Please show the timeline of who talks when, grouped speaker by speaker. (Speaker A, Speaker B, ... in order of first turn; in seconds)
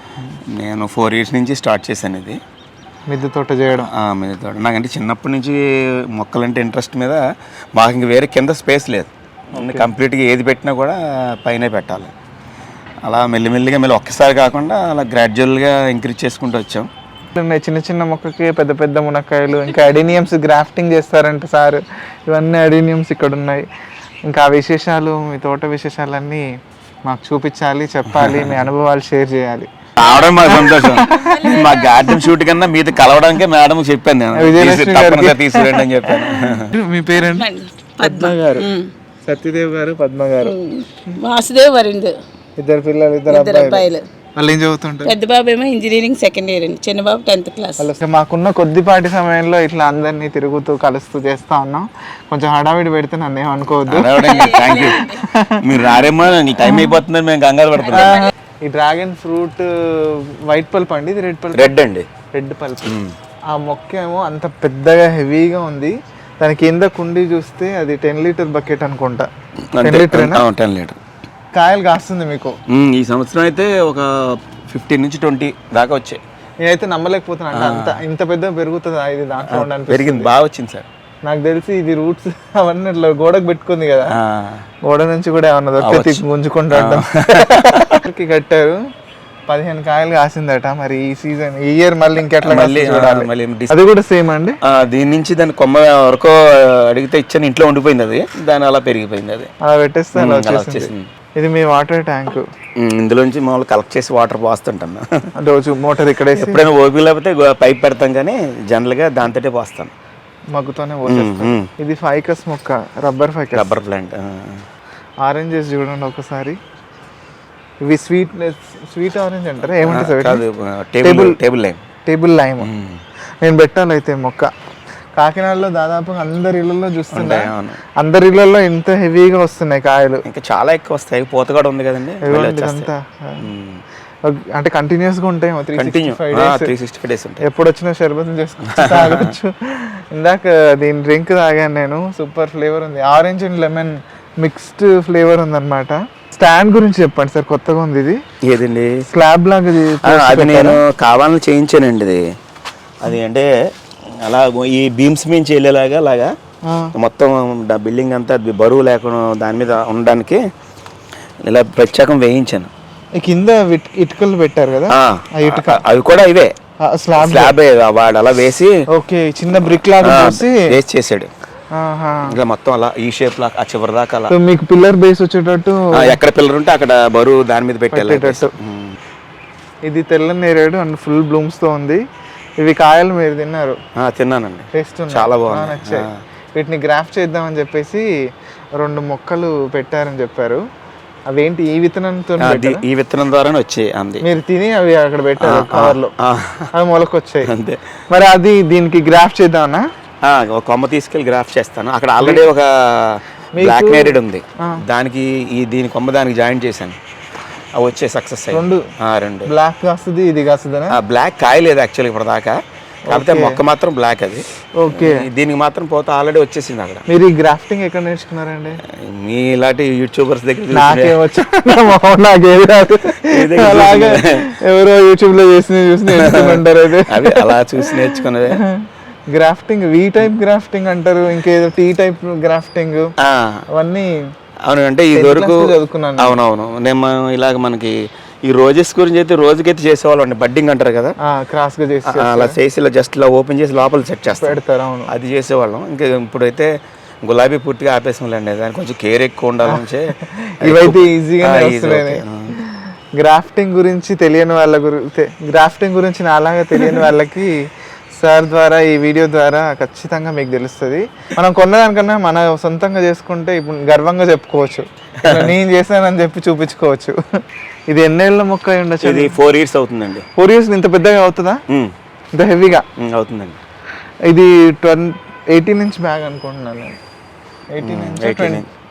Speaker A: 0.5-2.4, 3.9-7.2, 7.8-12.1, 13.1-16.9, 28.1-28.7, 30.0-36.7, 53.9-55.1, 55.6-58.3, 61.5-62.1, 62.9-63.2, 69.8-71.0, 72.7-76.2, 77.5-78.0, 79.5-80.9, 84.1-84.7, 85.8-88.0, 92.2-93.8, 94.6-99.5, 100.2-101.1, 102.8-105.3, 106.3-109.9, 111.1-111.7, 113.5-114.7, 119.8-121.8, 122.6-123.0, 127.1-127.8, 130.2-133.8, 135.8-137.4, 138.7-139.3, 148.4-149.1, 150.0-152.2, 153.0-156.3, 156.9-160.4, 161.4-162.7, 164.9-166.6, 167.2-168.8, 169.5-171.3, 172.3-174.3, 175.9-179.0, 184.0-186.2, 192.4-194.2, 195.4-196.7, 197.4-197.9, 200.2-207.0, 207.8-209.5, 210.9-217.1, 218.8-221.8, 223.2-224.5, 226.1-228.6, 233.2-233.7, 234.7-241.2, 242.1-246.7, 247.2-252.5, 265.2-265.5, 269.0-270.3, 271.7-271.9, 273.0-273.6, 277.8-278.7
Speaker B: 3.1-3.9, 9.5-9.9, 17.4-23.7, 24.3-26.4, 27.1-29.7, 30.4-31.4, 34.4-37.5, 38.0-38.7, 39.3-40.5, 42.6-43.9, 44.4-45.1, 47.8-56.1, 56.6-57.0, 57.9-61.8, 62.3-63.0, 63.5-69.3, 69.8-70.4, 71.5-72.6, 76.6-80.3, 81.2-84.2, 84.8-88.8, 89.5-94.6, 99.6-102.5, 105.4-106.6, 110.5-113.7, 115.2-116.6, 117.8-120.4, 121.0-121.4, 122.1-122.7, 123.4-124.5, 125.2-130.2, 132.2-133.5, 134.2-136.7, 137.4-148.2, 149.1-150.8, 156.7-156.9, 163.2-165.8, 166.8-167.5, 168.9-170.7, 171.7-172.3, 174.3-176.2, 177.9-178.5, 179.8-182.0, 182.6-183.8, 184.7-188.1, 188.8-190.6, 191.3-192.8, 194.2-196.1, 196.7-197.5, 198.1-199.9, 202.2-202.5, 203.6-204.8, 208.5-208.9, 209.4-211.0, 213.1-213.6, 214.8-215.3, 217.1-218.8, 220.7-233.1, 233.7-234.3, 235.1-236.3, 241.2-242.6, 244.3-245.1, 249.7-269.4, 270.4-271.6, 272.4-272.9, 274.3-277.0, 277.7-278.6
Speaker C: 30.0-32.3, 37.2-38.9, 40.4-42.1, 43.3-44.1, 45.0-47.9, 54.2-55.2, 56.4-56.8, 57.9-58.3